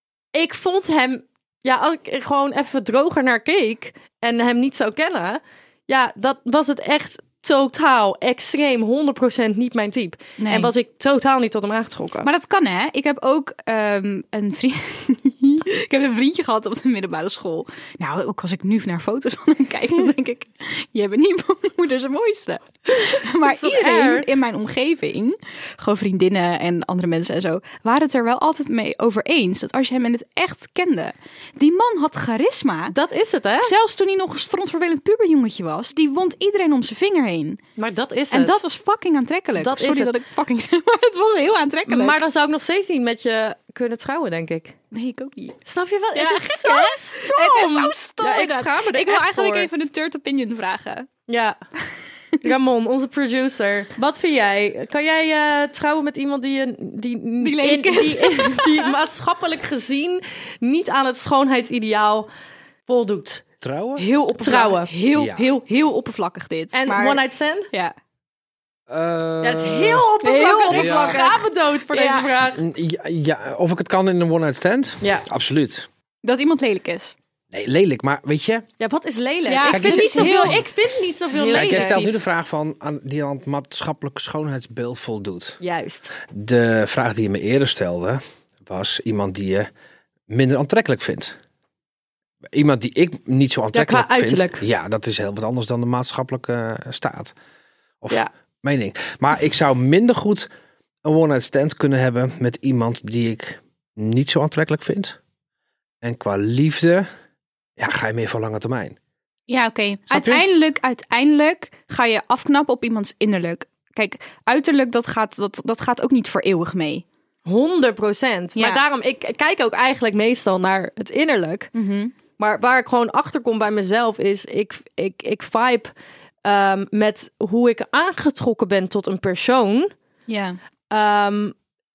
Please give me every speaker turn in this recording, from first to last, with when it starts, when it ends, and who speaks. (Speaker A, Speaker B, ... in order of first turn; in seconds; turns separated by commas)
Speaker A: 0.3-12.3, Speaker B: 10.4-10.7, Speaker B: 12.2-33.0, Speaker A: 23.4-24.3, Speaker A: 32.9-33.7, Speaker B: 33.6-37.6, Speaker A: 37.8-38.6, Speaker B: 38.3-42.2, Speaker A: 39.6-40.1, Speaker A: 41.9-44.8, Speaker B: 44.9-45.6, Speaker A: 45.7-49.7, Speaker B: 46.1-51.1, Speaker A: 51.3-51.6, Speaker A: 52.4-62.3, Speaker B: 57.4-59.0, Speaker A: 62.9-63.4, Speaker C: 63.6-64.0, Speaker B: 64.0-67.9, Speaker A: 64.4-64.9, Speaker C: 65.2-65.4, Speaker A: 66.7-67.7, Speaker C: 68.9-70.1, Speaker A: 69.4-72.6, Speaker B: 70.2-72.3, Speaker C: 70.7-71.2, Speaker C: 72.5-75.9, Speaker B: 76.2-77.2, Speaker C: 77.5-78.7, Speaker A: 78.8-82.2, Speaker B: 79.5-80.7, Speaker C: 79.7-80.6, Speaker B: 81.3-82.1, Speaker C: 81.5-85.6, Speaker A: 85.6-86.1, Speaker C: 86.3-89.7, Speaker C: 90.3-91.4, Speaker C: 92.5-97.3, Speaker A: 93.7-94.6, Speaker C: 98.0-100.5, Speaker C: 101.0-105.2, Speaker C: 106.0-107.1, Speaker C: 107.8-109.0, Speaker B: 109.5-117.0, Speaker C: 110.1-110.4, Speaker A: 117.5-121.7, Speaker B: 118.6-118.8, Speaker B: 121.8-122.1, Speaker A: 122.4-125.9, Speaker A: 126.4-129.9, Speaker B: 130.3-130.6, Speaker A: 130.9-131.6